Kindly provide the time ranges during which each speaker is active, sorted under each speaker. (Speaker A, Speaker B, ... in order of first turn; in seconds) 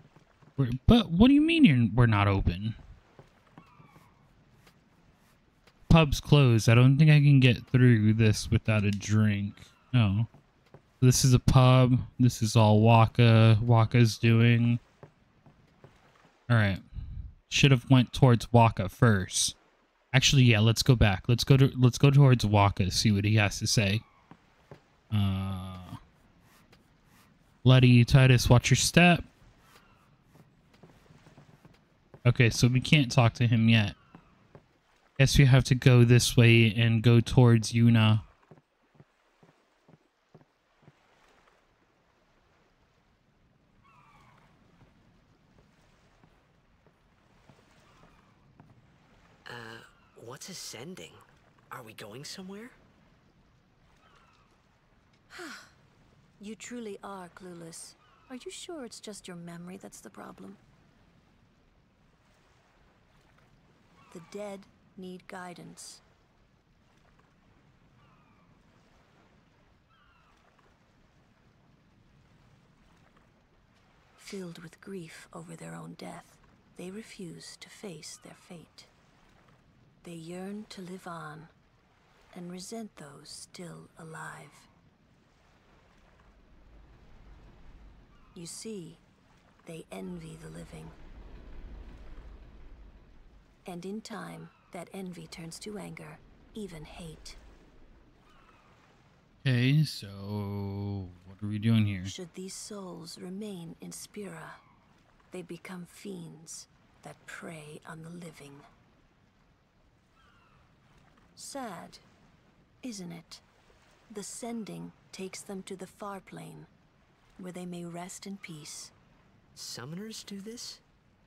Speaker A: 0.6-2.8, 5.9-10.3, 11.0-14.8, 16.5-16.8, 17.5-19.6, 20.1-24.0, 25.1-26.0, 27.6-29.3, 32.2-34.0, 35.2-38.2, 99.4-102.1
Speaker B: 49.5-52.8, 119.5-120.8
Speaker C: 55.3-55.7, 56.4-60.6, 64.1-66.0, 74.2-78.9, 80.0-81.5, 82.3-84.7, 88.3-89.0, 89.6-91.0, 93.7-97.4, 102.0-104.6, 105.3-108.7, 111.4-112.0, 112.8-113.4, 114.1-116.7, 117.4-118.9